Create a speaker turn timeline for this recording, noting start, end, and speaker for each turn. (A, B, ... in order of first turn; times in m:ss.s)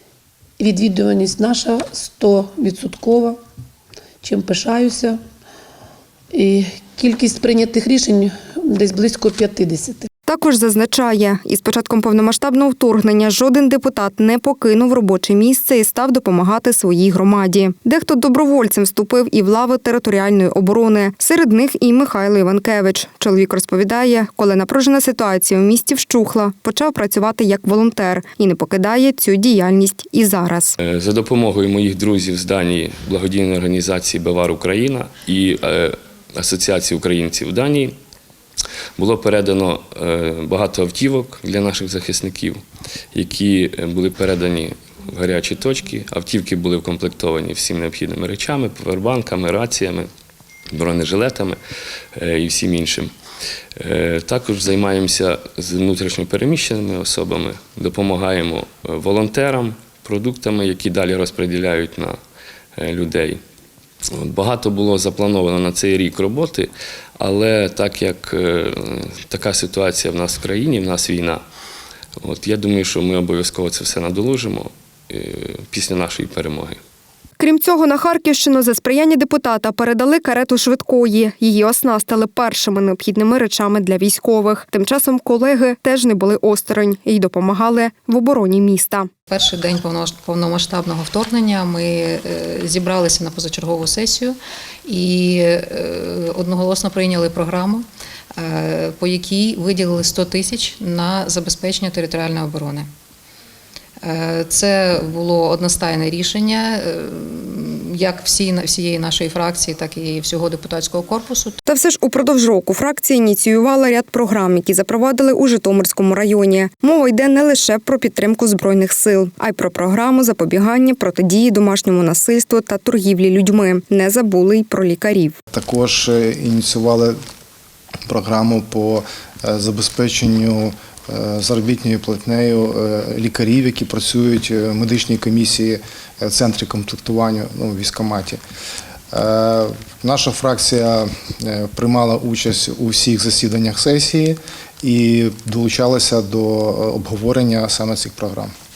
0:00.6-0:03.4 A
0:04.2-0:05.2 A
0:06.3-0:10.1 A
0:10.3-0:30.7 B
0:30.8-0:37.9 C
0:39.0-0:42.6 C
0:43.1-0:50.1 C
0:50.7-0:51.6 C
0:52.2-0:53.1 C
0:53.8-1:02.2 C
1:02.8-1:03.4 C
1:04.1-1:11.4 C
1:12.2-1:16.8 C
1:17.4-1:29.1 B
1:29.3-1:34.3 D
1:34.8-1:37.8 D
1:38.4-1:42.8 D
1:44.0-1:51.6 D
1:51.7-2:05.4 B
2:05.5-2:07.2 E
2:08.1-2:18.4 E
2:19.1-2:28.5 E